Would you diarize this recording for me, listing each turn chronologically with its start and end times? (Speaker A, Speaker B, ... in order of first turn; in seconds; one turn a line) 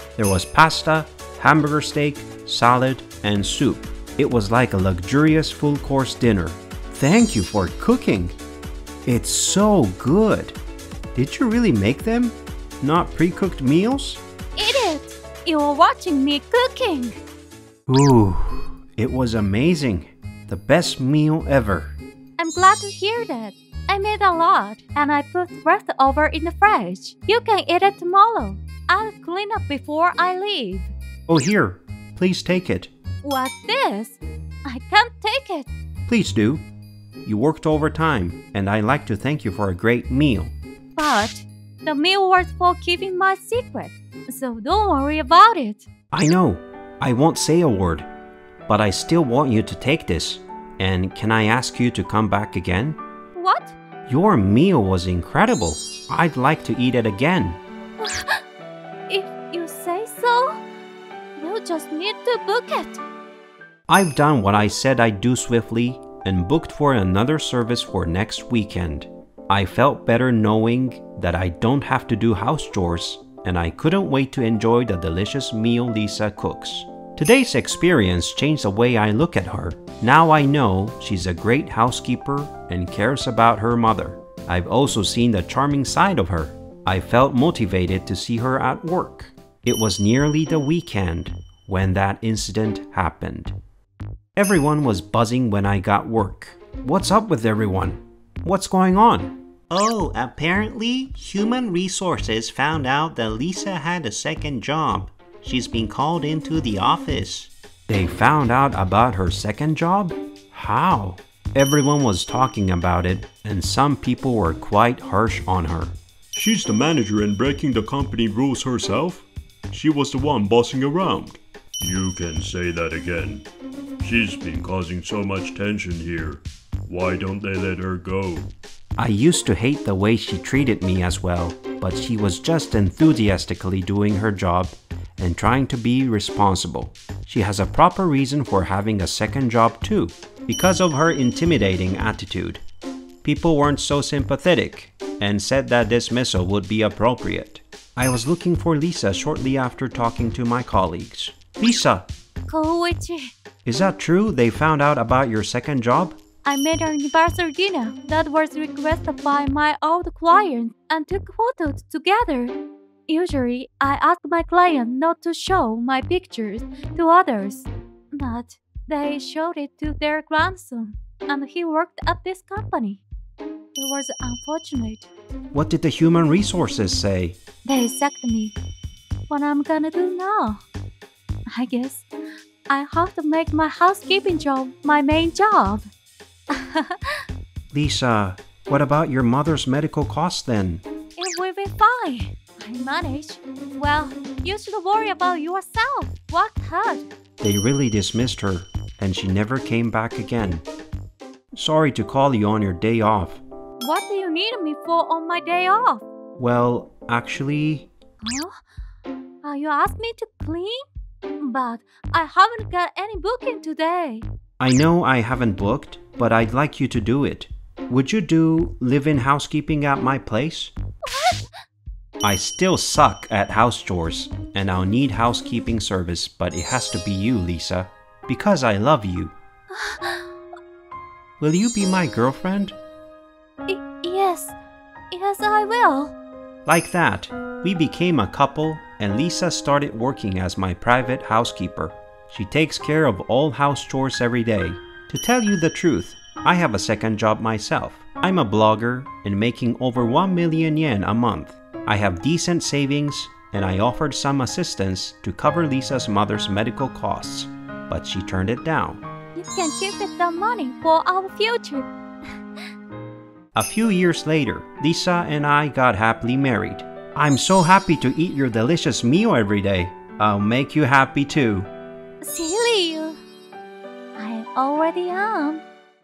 Speaker A: 0.1-8.3
Speaker A: 9.1-10.6
Speaker A: 11.1-14.2
Speaker B: 14.6-17.2
Speaker A: 17.9-22.0
Speaker B: 22.4-30.9
Speaker A: 31.3-32.9
Speaker B: 33.2-35.7
Speaker A: 36.1-36.6
Speaker A: 37.2-40.5
Speaker B: 41.0-45.9
Speaker A: 46.1-48.1
Speaker A: 48.7-53.0
Speaker B: 53.4-53.8
Speaker A: 54.1-57.6
Speaker B: 58.0-58.4
Speaker B: 59.1-60.6
Speaker B: 61.4-63.0
Speaker A: 63.9-93.5
Speaker A: 94.3-116.0
Speaker C: 116.3-123.5
Speaker C: 124.0-128.5
Speaker A: 129.0-142.6
Speaker A: 143.2-152.1
Speaker B: 152.5-153.3
Speaker A: 153.6-156.2
Speaker B: 156.4-162.5
Speaker B: 163.1-173.0
Speaker B: 173.7-175.1
Speaker A: 175.5-177.4
Speaker B: 177.6-178.6
Speaker B: 179.3-180.6
Speaker B: 181.5-182.0
Speaker B: 182.7-185.9
Speaker B: 186.5-187.2
Speaker A: 187.7-190.8
Speaker B: 191.2-197.1
Speaker A: 197.4-200.6
Speaker A: 201.5-203.4
Speaker B: 203.8-206.0
Speaker A: 206.4-207.9
Speaker B: 208.2-208.6
Speaker B: 209.4-210.8
Speaker B: 211.4-214.2
Speaker A: 214.6-220.7
Speaker B: 221.0-221.5
Speaker A: 222.2-229.3
Speaker B: 229.7-230.2
Speaker A: 231.4-232.8
Speaker B: 233.7-234.6
Speaker B: 235.1-236.1
Speaker A: 236.7-259.0
Speaker B: 259.4-261.9
Speaker A: 263.5-271.7
Speaker B: 272.2-273.2
Speaker B: 274.2-275.6